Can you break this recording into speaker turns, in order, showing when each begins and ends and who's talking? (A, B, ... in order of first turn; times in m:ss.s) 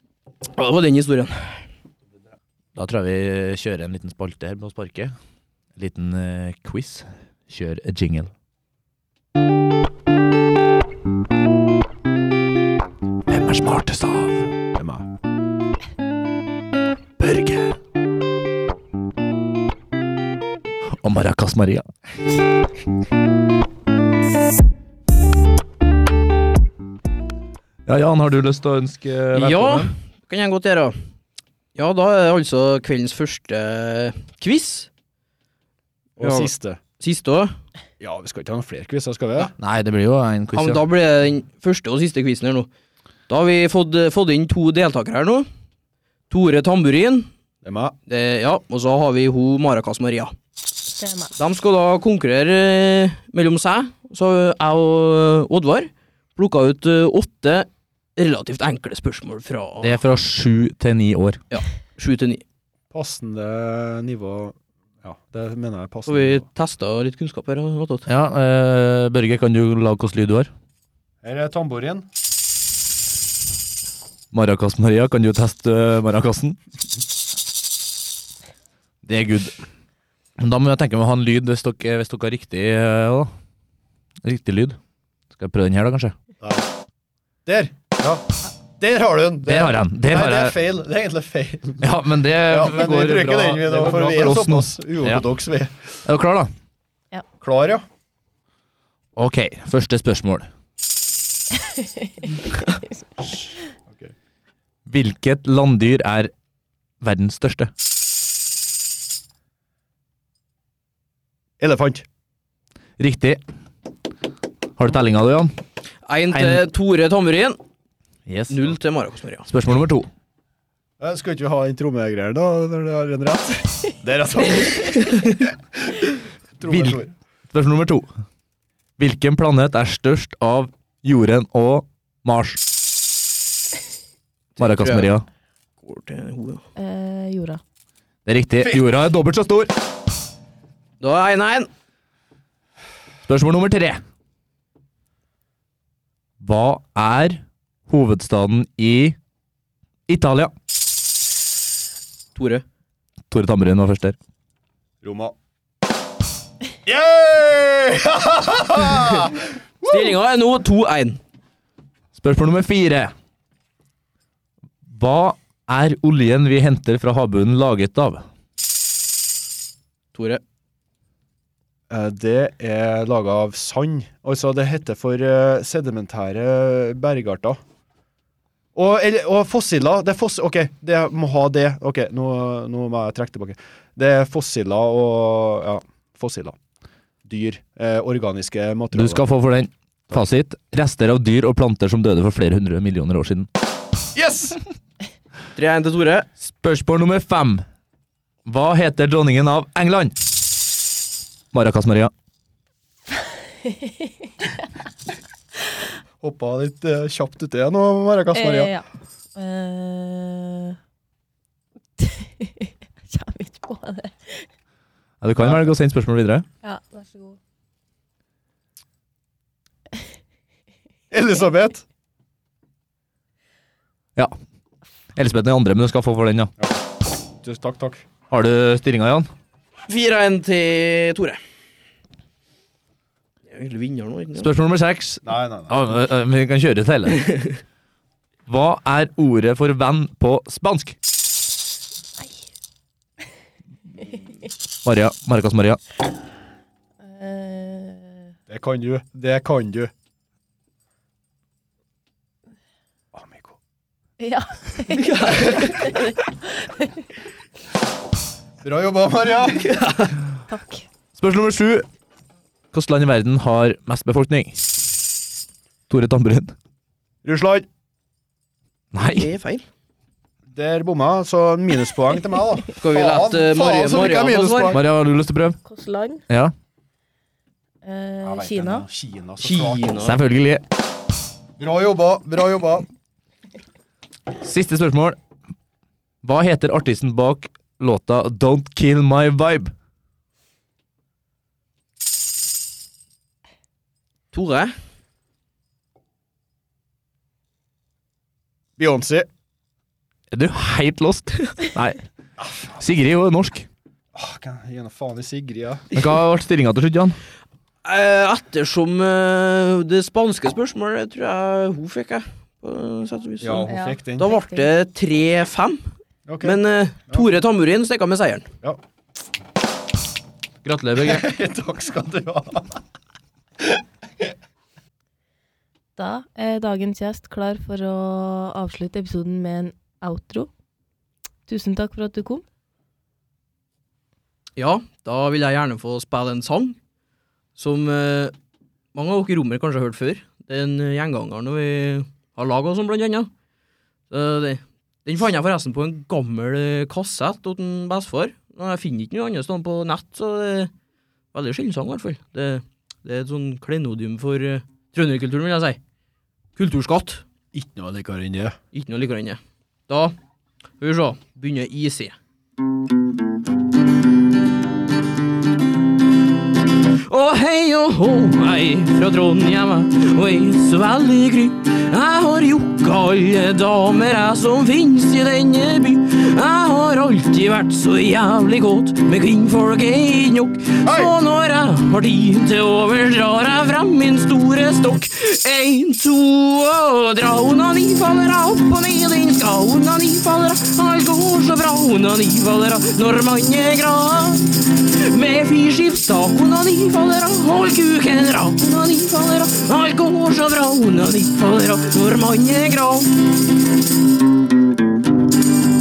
0:00.6-0:01.6 A
0:02.7-0:05.1 B
0:05.8-0:08.3 B
0:13.3-0:14.5 B
0:14.7-0:15.0 C
0:17.2-0:17.8 B
0:21.0-0:21.9 B
0:27.9-0:29.9 B
0:29.3-0:30.9 A
0:31.7-0:34.9 A
0:36.2-0:36.8 C
0:36.2-0:37.5 A
0:38.0-0:39.5 C
0:39.6-0:40.8 B
0:40.5-0:42.7 A
0:43.3-0:45.4 A
0:46.3-0:47.3 A
0:47.6-0:47.9 C
0:48.1-0:50.3 A
0:51.0-0:51.3 D
0:51.4-1:00.0 A
0:59.8-1:01.4 B
1:01.5-1:02.4 A
1:02.9-1:06.4 C
1:06.1-1:08.1 A
1:08.1-1:10.5 B
1:11.2-1:12.1 C
1:14.3-1:16.6 B
1:19.0-1:19.6 B
1:20.4-1:23.3 B
1:24.2-1:24.8 B
1:25.3-1:26.1 B
1:27.4-1:28.2 C
1:28.8-1:31.9 C
1:29.5-1:30.5 B
1:31.8-1:35.2 B
1:32.5-1:35.7 C
1:36.0-1:36.5 B
1:37.4-1:37.8 C
1:39.2-1:40.5 B
1:44.9-1:46.3 B
1:47.0-1:47.7 B
1:51.6-1:52.0 C
1:53.0-1:53.4 B
1:54.8-1:55.5 B
1:56.1-1:57.6 A
1:56.3-1:56.6 B
1:58.3-1:58.7 B
1:58.5-1:59.4 A
1:59.5-2:00.1 B
2:01.0-2:07.1 C
2:04.7-2:05.4 A
2:06.6-2:07.0 B
2:07.5-2:08.1 B
2:09.0-2:12.6 B
2:14.6-2:15.2 B
2:14.6-2:15.1 A
2:15.8-2:16.6 A
2:16.8-2:17.6 D
2:18.2-2:19.7 B
2:21.0-2:21.7 A
2:23.2-2:24.0 B
2:26.4-2:29.2 B
2:30.1-2:30.5 B
2:32.3-2:32.6 A
2:33.3-2:34.2 B
2:35.0-2:35.3 C
2:36.8-2:40.1 C
2:39.8-2:41.2 A
2:42.1-2:43.1 B
2:44.9-2:48.2 B
2:50.1-2:50.4 A
2:51.9-2:57.6 C
2:58.7-3:06.6 C
3:07.2-3:09.2 C
3:08.9-3:13.5 B
3:14.1-3:14.6 C
3:15.6-3:16.3 A
3:16.4-3:17.6 B
3:18.4-3:20.1 B
3:21.5-3:22.1 B
3:23.6-3:24.0 D
3:26.2-3:28.7 C
3:28.3-3:30.8 D
3:32.0-3:34.5 D
3:35.2-3:36.4 B
3:35.4-3:35.6 C
3:36.6-3:37.4 D
3:41.1-3:41.8 C
3:45.2-3:46.5 B
3:47.4-3:48.0 C
3:48.3-3:49.3 B
3:49.9-3:51.4 A
3:53.5-3:54.5 A
3:54.4-3:57.2 B
3:55.2-3:55.8 C
3:58.5-4:01.0 B
4:04.8-4:05.8 B
4:07.0-4:08.2 D
4:08.5-4:09.9 C
4:13.1-4:13.5 C
4:14.2-4:17.0 D
4:14.9-4:15.7 A
4:18.6-4:19.8 C
4:19.7-4:20.1 A
4:20.5-4:20.8 D
4:21.2-4:21.8 B
4:22.7-4:24.6 B
4:25.9-4:26.5 B
4:27.2-4:27.6 C
4:28.9-4:29.3 B
4:29.1-4:29.6 A
4:30.5-4:34.8 C
4:32.8-4:34.7 A
4:34.7-4:35.6 B
4:35.6-4:36.2 D
4:37.8-4:38.8 D
4:38.2-4:40.1 C
4:39.4-4:40.2 A
4:40.0-4:40.6 B
4:41.6-4:42.9 C
4:44.4-4:45.2 B
4:46.2-4:49.7 B
4:54.3-4:54.7 A
4:58.8-4:59.3 C
5:00.3-5:02.0 B
5:02.7-5:03.7 B
5:04.1-5:05.8 C
5:05.9-5:07.2 B
5:07.8-5:15.8 A
5:13.4-5:14.3 C
5:13.7-5:14.7 D
5:16.2-5:17.3 C
5:16.4-5:18.5 A
5:20.7-5:21.2 A
5:21.0-5:22.8 C
5:26.0-5:30.5 D
5:31.5-5:32.4 D
5:34.6-5:36.8 A
5:37.6-5:38.3 A
5:38.9-5:43.3 A
5:44.1-5:50.7 A
5:51.3-5:55.8 A
5:56.6-5:57.2 A
5:57.5-5:58.6 C
5:58.7-6:00.1 A
6:00.8-6:02.2 A
6:07.1-6:43.1 A
6:20.8-6:21.1 C